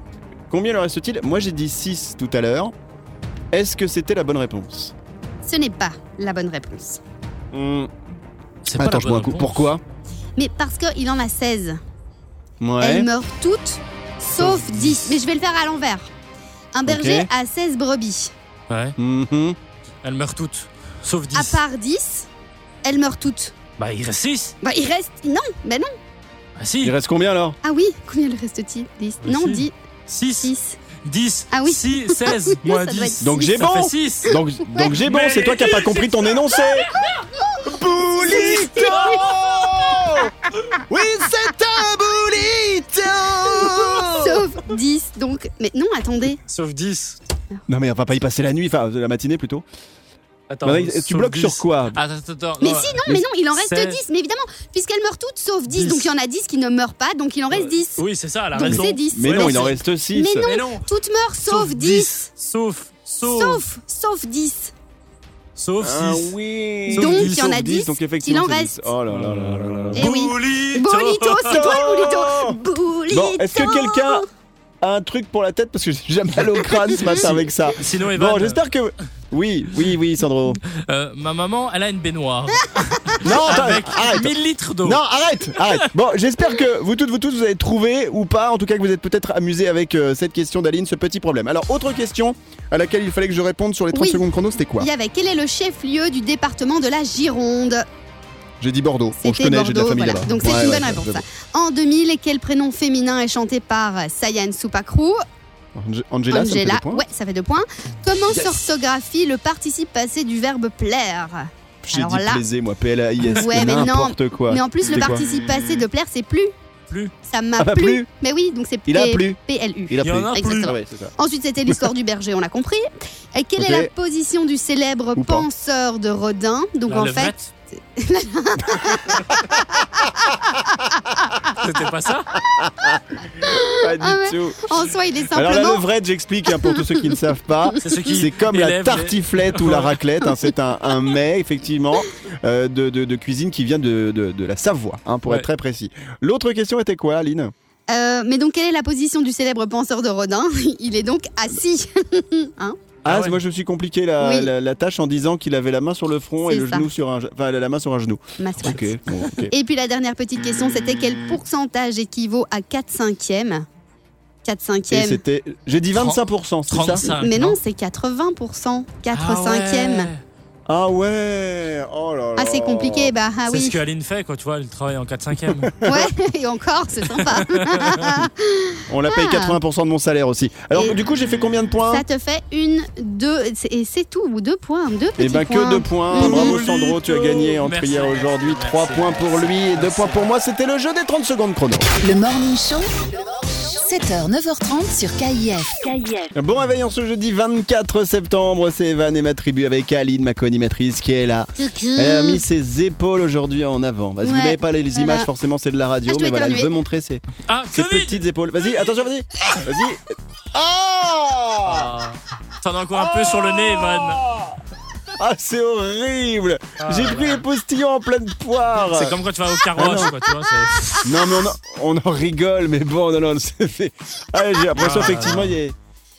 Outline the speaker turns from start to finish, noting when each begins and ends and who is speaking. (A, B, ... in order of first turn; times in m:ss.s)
0:00.5-0:02.7 A
0:03.5-0:04.9 A
0:05.4-0:07.0 B
0:07.5-0:07.9 A
0:08.6-0:09.7 C
0:08.8-0:09.8 A
0:10.4-0:11.8 B
0:12.6-0:13.1 A
0:12.8-0:16.1 B
0:14.4-0:15.2 C
0:16.7-0:18.3 B
0:16.9-0:17.3 A
0:18.7-0:19.0 C
0:19.0-0:19.6 A
0:20.0-0:21.6 C
0:21.3-0:22.3 B
0:22.8-0:23.5 B
0:23.8-0:24.6 C
0:24.6-0:25.9 B
0:26.6-0:27.0 C
0:26.8-0:27.6 A
0:27.6-0:29.7 B
0:29.2-0:30.5 C
0:30.4-0:30.8 B
0:31.0-0:36.2 C
0:31.5-0:33.6 B
0:33.2-0:36.9 A
0:37.6-0:40.4 A
0:38.2-0:39.3 B
0:38.7-0:39.2 C
0:40.9-0:44.5 A
0:43.6-0:46.4 B
0:46.5-0:47.2 C
0:47.7-0:49.6 A
0:50.5-0:54.0 C
0:50.6-0:52.0 A
0:52.6-0:58.0 B
0:55.7-0:56.1 C
0:57.5-0:59.8 C
0:58.5-1:02.1 B
0:58.6-1:00.4 A
1:00.3-1:00.9 C
1:01.4-1:03.6 C
1:03.2-1:04.7 B
1:05.6-1:06.4 C
1:05.8-1:10.1 A
1:06.9-1:07.6 C
1:07.0-1:08.9 B
1:09.1-1:11.8 C
1:10.0-1:14.3 B
1:11.4-1:12.6 A
1:13.1-1:14.3 A
1:14.8-1:20.6 A
1:16.9-1:17.3 B
1:17.0-1:18.6 C
1:20.7-1:25.0 C
1:23.2-1:34.9 A
1:25.5-1:25.9 C
1:33.9-1:34.2 B
1:34.8-1:37.9 B
1:38.6-1:41.2 A
1:39.2-1:45.2 B
1:45.8-1:47.0 A
1:46.3-1:52.4 B
1:51.8-1:55.2 A
1:53.3-1:56.5 B
1:57.3-2:11.5 B
1:57.6-1:58.1 A
1:58.9-1:59.4 A
1:59.9-2:01.2 A
2:00.0-2:00.7 C
2:03.6-2:03.9 A
2:05.2-2:05.5 A
2:06.9-2:07.5 C
2:11.6-2:12.3 C
2:12.4-2:14.7 A
2:13.4-2:15.8 B
2:15.3-2:27.5 A
2:16.6-2:16.8 B
2:17.7-2:18.0 B
2:17.8-2:20.0 C
2:27.9-2:32.8 B
2:33.0-2:39.5 A
2:33.1-2:33.4 C
2:34.2-2:34.5 B
2:36.5-2:36.9 B
2:38.4-2:38.9 B
2:39.5-2:43.7 B
2:44.4-2:45.2 B
2:44.9-2:47.1 A
2:46.0-2:47.6 C
2:47.1-2:50.1 B
2:49.1-2:50.2 C
2:50.7-2:53.1 A
2:52.4-2:53.8 B
2:53.5-2:55.7 C
2:55.5-2:56.1 A
2:55.8-2:59.6 B
2:57.1-2:58.2 C
2:58.9-3:02.0 A
3:01.8-3:06.6 B
3:05.2-3:11.9 A
3:06.1-3:10.3 C
3:12.0-3:16.3 D
3:16.3-3:31.9 A
3:21.6-3:22.4 B
3:24.2-3:25.3 B
3:26.1-3:26.7 B
3:27.5-3:28.2 C
3:31.6-3:34.2 C
3:33.2-3:34.6 A
3:35.2-3:39.2 A
3:36.8-3:37.4 C
3:38.8-3:41.1 C
3:39.8-3:40.1 A
3:39.9-3:40.2 B
3:40.8-3:41.1 B
3:41.0-3:45.8 A
3:44.7-3:45.6 C